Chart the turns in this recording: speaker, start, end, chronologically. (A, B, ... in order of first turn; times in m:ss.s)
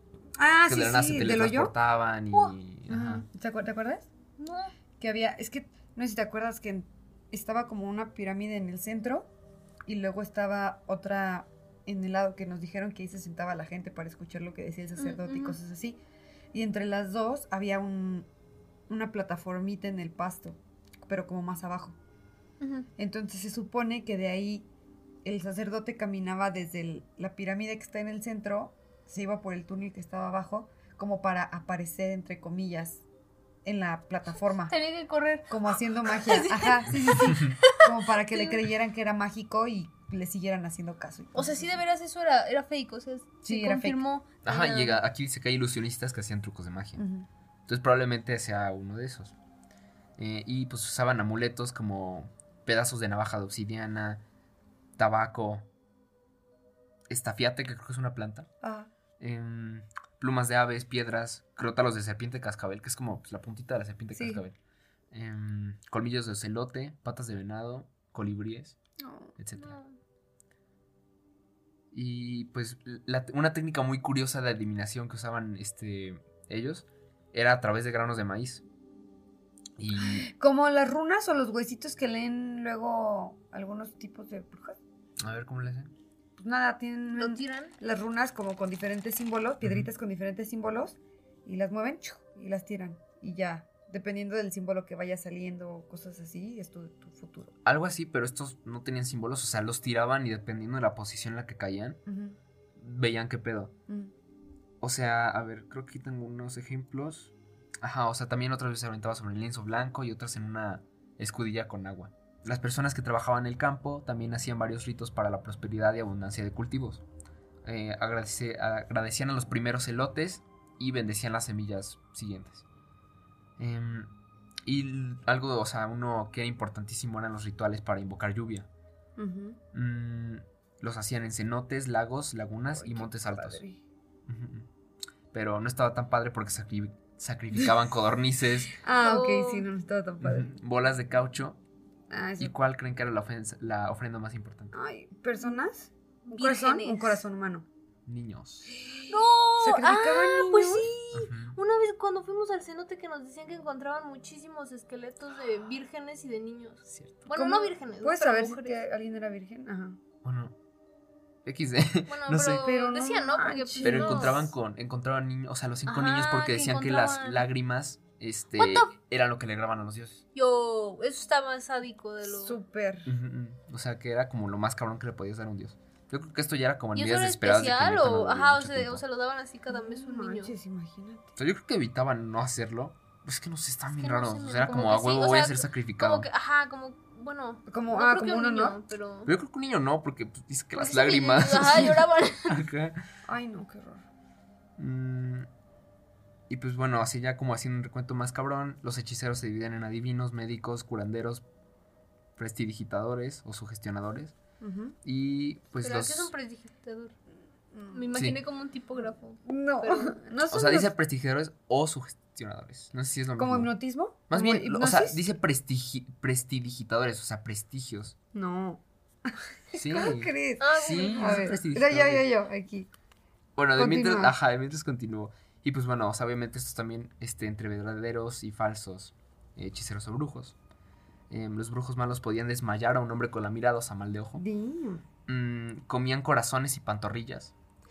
0:00.4-0:01.7 A
0:00.7-0:03.3 B
0:02.9-0:04.1 A
0:04.4-0:04.7 C
0:05.0-0:09.3 A
0:09.9-0:16.0 A
0:15.0-0:15.6 C
0:16.5-0:18.3 A
0:18.9-0:22.0 A
0:22.6-0:22.9 C
0:23.0-0:24.7 A
0:25.2-0:33.0 A
0:33.6-0:34.8 A
0:34.7-0:38.7 C
0:35.5-0:41.8 A
0:41.3-0:45.0 C
0:43.4-0:44.0 A
0:44.4-0:47.0 B
0:47.0-0:47.3 A
0:47.7-0:49.4 B
0:50.2-0:54.2 B
0:55.0-0:55.7 B
0:57.1-0:58.5 B
0:58.6-0:58.9 A
0:59.2-1:04.6 B
1:04.1-1:04.4 A
1:05.1-1:08.8 B
1:09.0-1:09.4 A
1:09.4-1:09.8 B
1:09.6-1:10.0 C
1:11.9-1:18.6 B
1:19.8-1:20.3 B
1:20.0-1:24.8 A
1:25.2-1:25.9 B
1:26.4-1:37.5 A
1:27.2-1:27.7 C
1:29.6-1:29.9 B
1:37.6-1:42.0 B
1:42.1-1:42.4 A
1:42.8-1:43.7 B
1:44.8-1:57.0 B
1:57.6-2:02.6 B
2:03.6-2:04.1 B
2:04.6-2:08.7 B
2:09.2-2:09.6 A
2:09.7-2:13.6 B
2:12.8-2:13.8 A
2:14.3-2:14.7 B
2:15.3-2:18.7 B
2:18.8-2:20.5 A
2:19.0-2:19.7 C
2:20.2-2:21.6 B
2:22.1-2:22.5 A
2:22.4-2:24.7 B
2:24.7-2:27.7 A
2:26.2-2:27.2 C
2:28.1-2:28.7 B
2:28.8-2:30.9 A
2:29.1-2:38.8 C
2:31.1-2:31.6 B
2:36.9-2:37.3 B
2:37.3-2:40.0 A
2:40.2-2:40.6 B
2:41.4-2:42.7 B
2:42.1-2:44.4 C
2:42.6-2:44.5 A
2:43.8-2:50.2 B
2:45.9-2:47.5 C
2:48.6-2:48.9 C
2:50.4-2:52.6 C
2:52.3-2:53.1 A
2:53.1-2:59.0 B
2:57.0-3:00.5 C
2:59.7-3:01.3 A
3:01.4-3:06.3 B
3:04.0-3:09.3 C
3:07.7-3:08.8 A
3:09.3-3:13.0 B
3:10.8-3:12.6 C
3:13.3-3:14.0 A
3:14.8-3:15.5 B
3:16.5-3:21.4 B
3:22.4-3:24.4 B
3:24.6-3:25.0 A
3:25.0-3:26.3 B
3:25.8-3:27.2 C
3:27.7-3:28.1 A
3:27.9-3:30.2 C
3:28.1-3:28.4 B
3:29.5-3:30.9 A
3:30.5-3:33.7 B
3:33.4-3:35.2 A
3:34.3-3:38.2 B
3:38.3-3:42.9 A
3:39.7-3:42.3 B
3:40.6-3:41.6 C
3:43.6-3:50.6 B
3:43.8-3:44.3 A
3:51.3-3:54.4 B
3:54.4-3:55.0 A
3:55.3-3:57.5 B